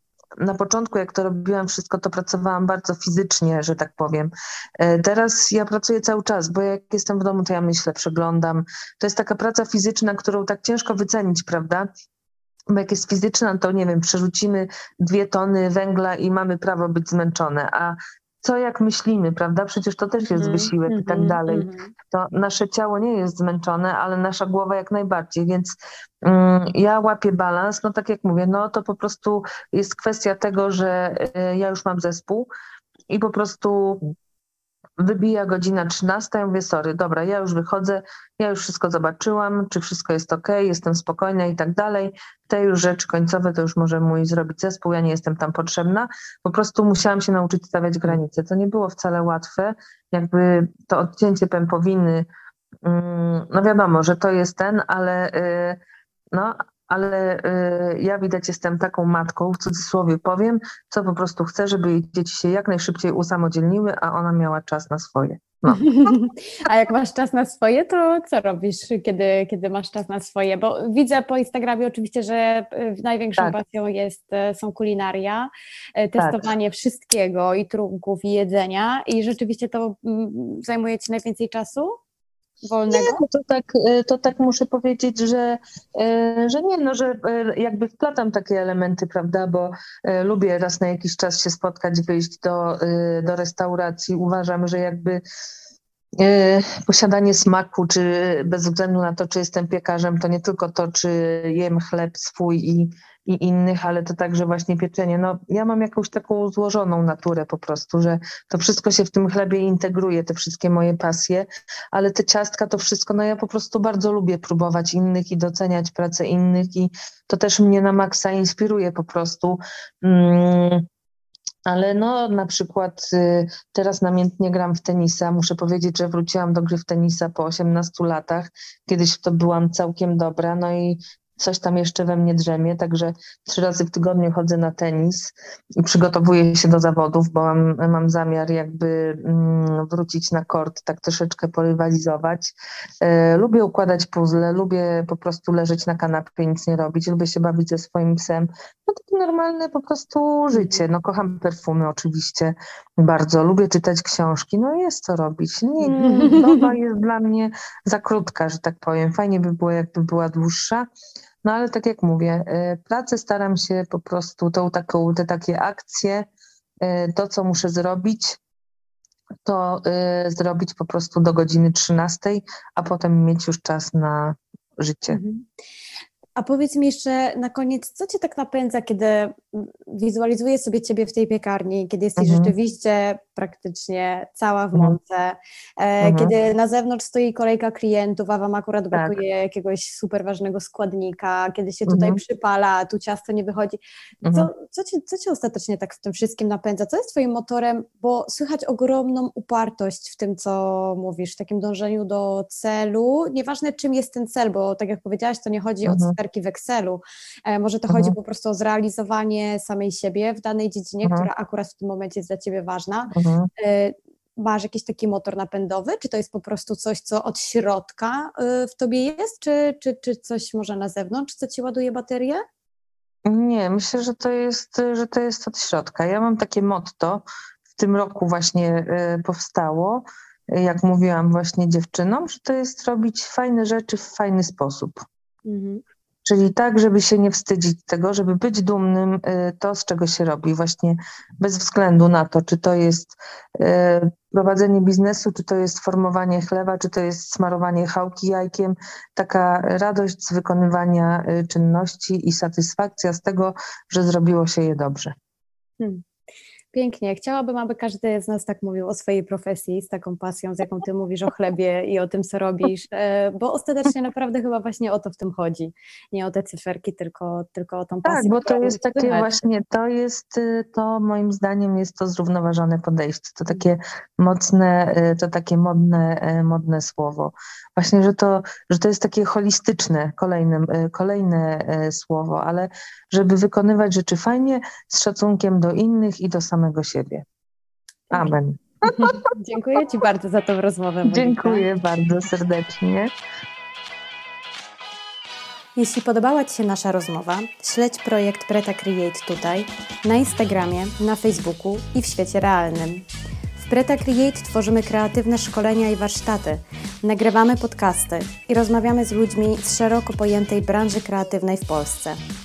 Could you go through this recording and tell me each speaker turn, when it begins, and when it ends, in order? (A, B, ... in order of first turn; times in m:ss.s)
0:00.4-0:11.9 A
0:12.7-0:25.7 A
0:20.3-0:21.9 B
0:26.2-0:32.5 A
0:33.1-0:34.1 A
0:35.0-0:52.3 A
0:52.8-0:55.8 A
0:56.3-1:05.9 A
1:05.7-1:22.0 B
1:16.2-1:16.4 A
1:22.6-1:23.2 B
1:22.9-1:35.2 A
1:36.2-2:00.9 A
2:01.7-2:40.9 A
2:30.5-2:30.8 B
2:35.8-2:36.7 B
2:41.4-2:46.3 A
2:46.8-2:48.4 A
2:49.4-2:55.2 A
2:55.1-2:55.4 B
2:56.4-3:13.8 B
3:02.2-3:02.5 A
3:06.0-3:06.3 A
3:11.9-3:12.2 A
3:14.2-3:14.5 A
3:14.3-3:42.4 B
3:25.9-3:26.1 A
3:33.1-3:33.5 A
3:43.3-3:55.0 A
3:55.4-3:55.8 B
3:56.2-4:15.1 A
4:15.8-4:16.0 B
4:16.7-4:29.4 B
4:28.0-4:47.2 A
4:48.1-4:49.2 A
4:48.8-4:51.7 B
4:51.0-4:53.1 A
4:55.8-5:12.2 B